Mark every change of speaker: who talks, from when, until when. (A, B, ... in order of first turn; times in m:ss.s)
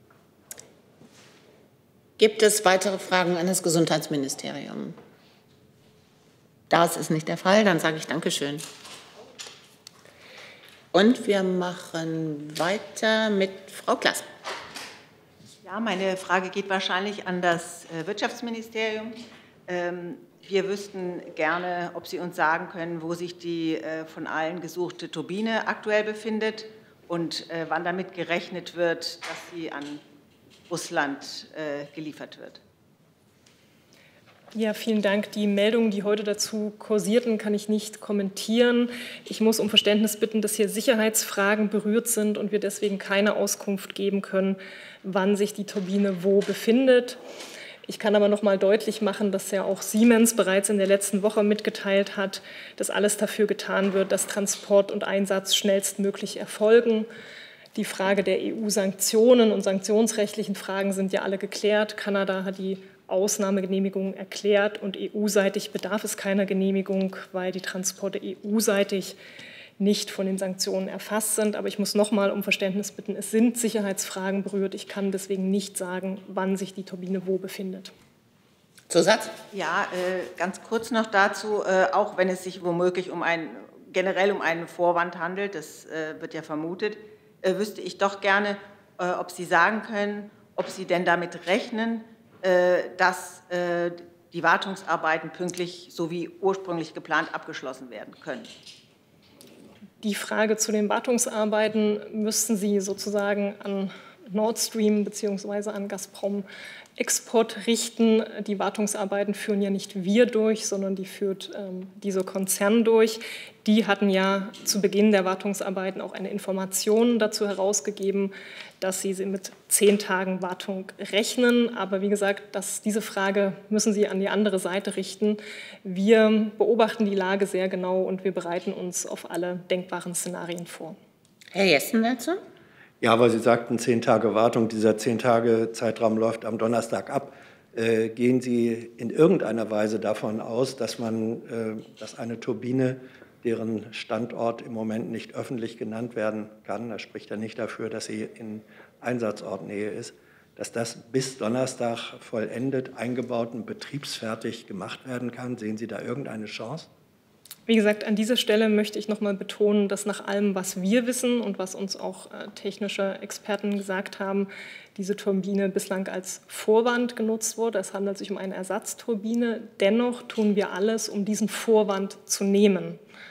0:02.2-0:05.0 A
0:06.7-0:08.6 A
0:10.9-0:14.2 A
0:15.6-0:30.0 B
0:30.7-0:32.6 B
0:34.5-0:47.2 C
0:47.8-0:57.1 C
0:57.7-1:09.2 C
1:09.8-1:17.9 C
1:18.9-1:19.3 A
1:19.5-1:38.5 B
1:40.0-1:46.4 C
1:47.0-2:11.0 C
2:11.5-2:12.4 A
2:13.0-2:36.9 D
2:37.7-2:53.0 C